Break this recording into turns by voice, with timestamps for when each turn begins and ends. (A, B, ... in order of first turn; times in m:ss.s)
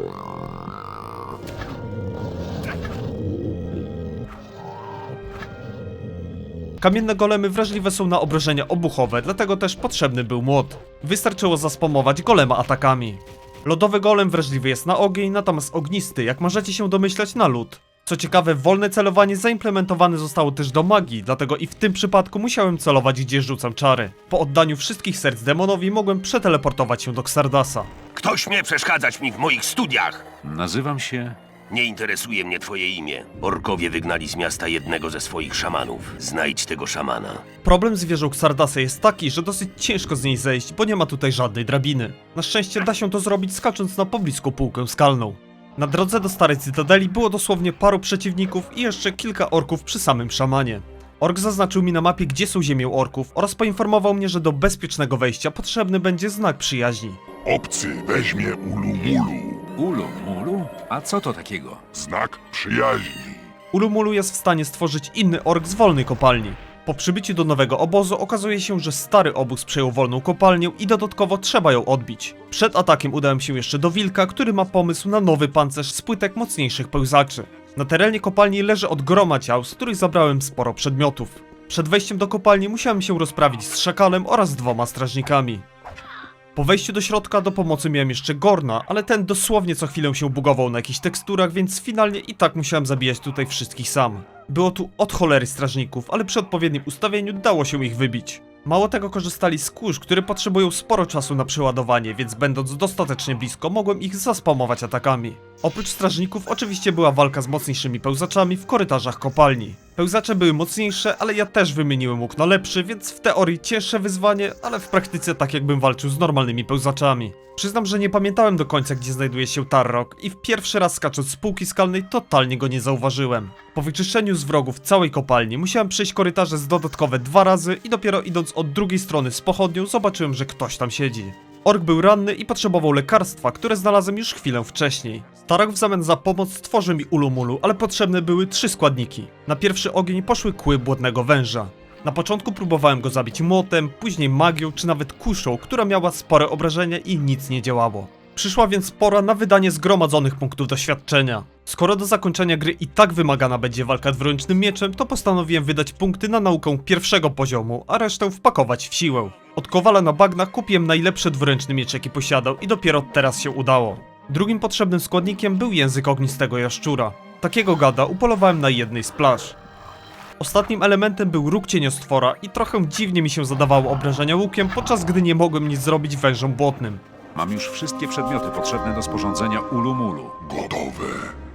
0:06.8-0:27.9 A
0:28.1-0:30.2 B
0:30.4-0:31.4 C
0:31.7-0:37.4 B
0:37.6-0:57.2 A
0:57.4-0:59.6 D
0:59.8-1:01.8 C
1:01.9-1:03.4 D
1:03.7-1:25.6 A
1:26.5-2:49.6 A
2:50.4-2:57.0 A
2:57.3-3:00.4 C
3:00.4-3:01.3 D